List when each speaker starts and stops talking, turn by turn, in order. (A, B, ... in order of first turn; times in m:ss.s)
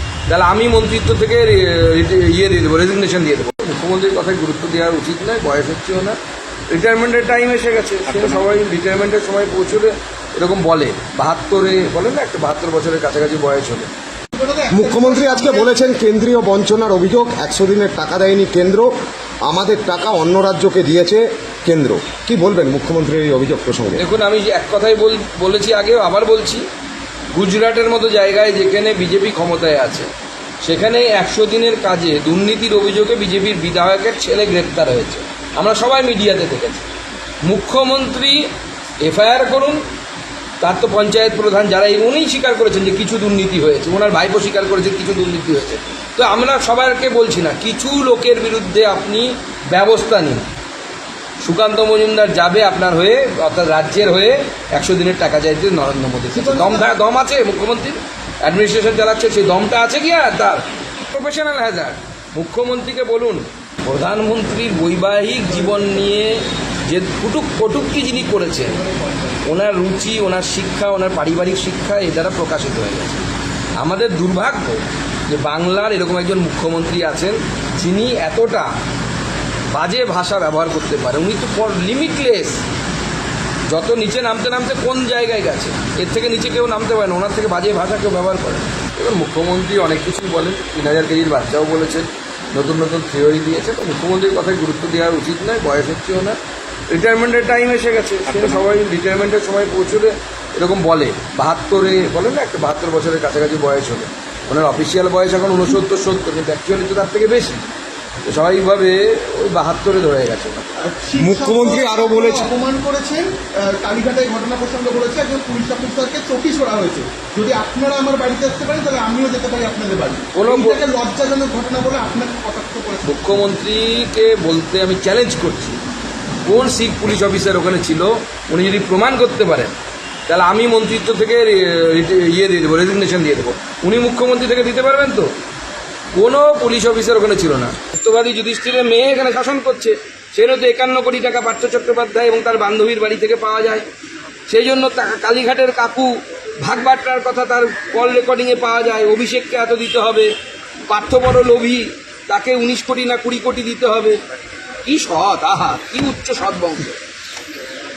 0:00.3-0:06.2 A
0:06.7-0:13.9 A
0:14.3-0:15.9 B
0:14.7-0:24.0 C
0:24.0-0:26.7 A
0:27.3-0:30.1 A
0:30.6-0:36.8 A
0:37.4-0:38.5 A
0:39.0-0:39.8 A
0:40.6-0:50.4 A
0:51.4-1:08.8 A
0:56.3-0:56.9 B
1:08.7-1:09.4 B
1:09.4-1:13.2 A
1:13.8-1:18.7 A
1:19.7-1:22.6 A
1:23.7-1:36.4 A
1:36.9-1:47.7 A
1:48.2-1:50.8 A
1:50.8-2:03.2 B
1:51.2-1:52.5 C
2:00.3-2:00.8 A
2:03.0-2:05.8 A
2:06.5-2:09.7 A
2:10.3-2:15.3 A
2:16.1-2:23.8 A
2:24.5-2:30.3 A
2:30.9-2:34.2 A
2:34.8-2:36.9 A